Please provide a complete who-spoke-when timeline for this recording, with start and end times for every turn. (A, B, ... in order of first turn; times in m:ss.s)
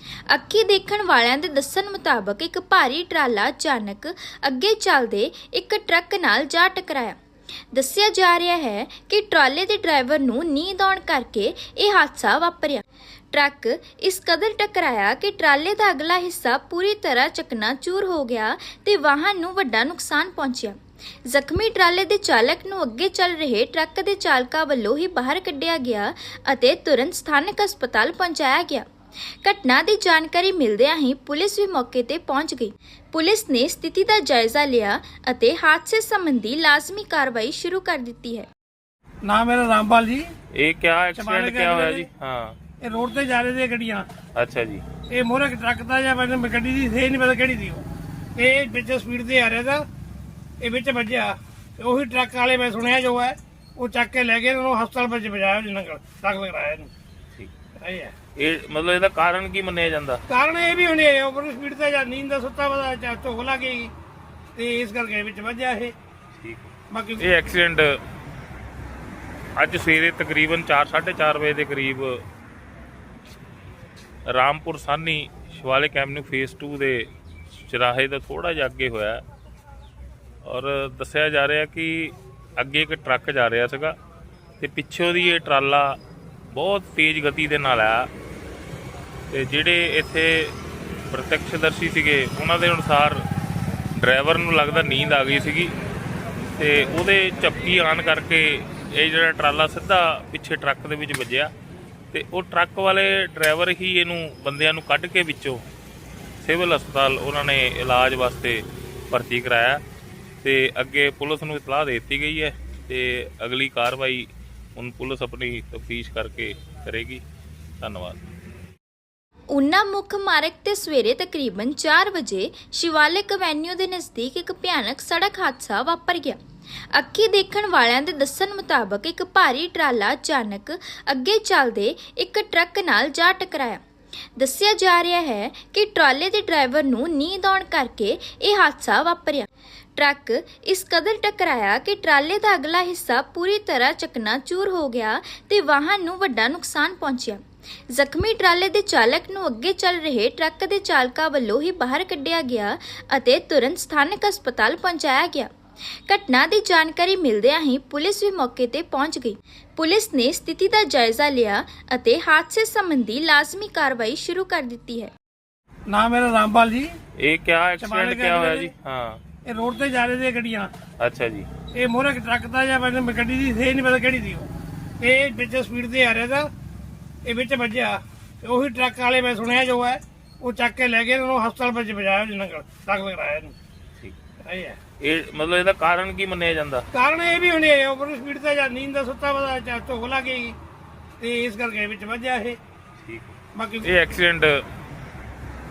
0:00.3-0:07.2 A
0:07.7-0:28.9 A
0:29.4-0:38.5 A
0:39.2-0:40.3 B
0:40.5-0:42.6 C
0:41.1-0:42.1 B
0:42.8-0:44.1 B
0:44.4-0:44.8 C
0:45.1-0:47.8 B
0:48.4-0:49.8 B
0:50.6-0:56.9 B
0:57.8-0:58.1 B
0:58.4-1:00.2 C
1:00.3-1:03.9 B
1:04.6-1:05.9 B
1:06.4-1:08.0 C
1:06.9-1:07.3 B
1:09.6-1:12.2 C
1:14.3-1:17.1 C
1:17.6-1:19.2 C
1:20.4-1:24.0 C
1:24.6-1:26.0 C
1:26.5-1:28.1 C
1:29.3-1:30.5 C
1:31.1-1:33.2 C
1:34.0-1:35.7 C
1:36.6-1:41.5 C
1:42.1-1:45.6 C
1:46.4-1:49.8 C
1:50.4-1:57.2 C
1:57.8-1:58.2 C
1:59.5-2:06.4 A
2:06.9-2:13.8 A
2:14.4-2:35.5 A
2:36.1-2:45.1 A
2:45.9-2:46.9 B
2:47.2-2:49.2 C
2:47.8-2:48.7 B
2:49.5-2:50.7 B
2:51.0-2:51.5 C
2:51.7-2:54.5 B
2:55.0-2:56.5 B
2:57.2-3:03.6 B
3:04.4-3:04.8 B
3:05.0-3:06.8 C
3:06.9-3:10.6 B
3:11.2-3:12.6 B
3:13.0-3:14.6 C
3:13.5-3:13.9 B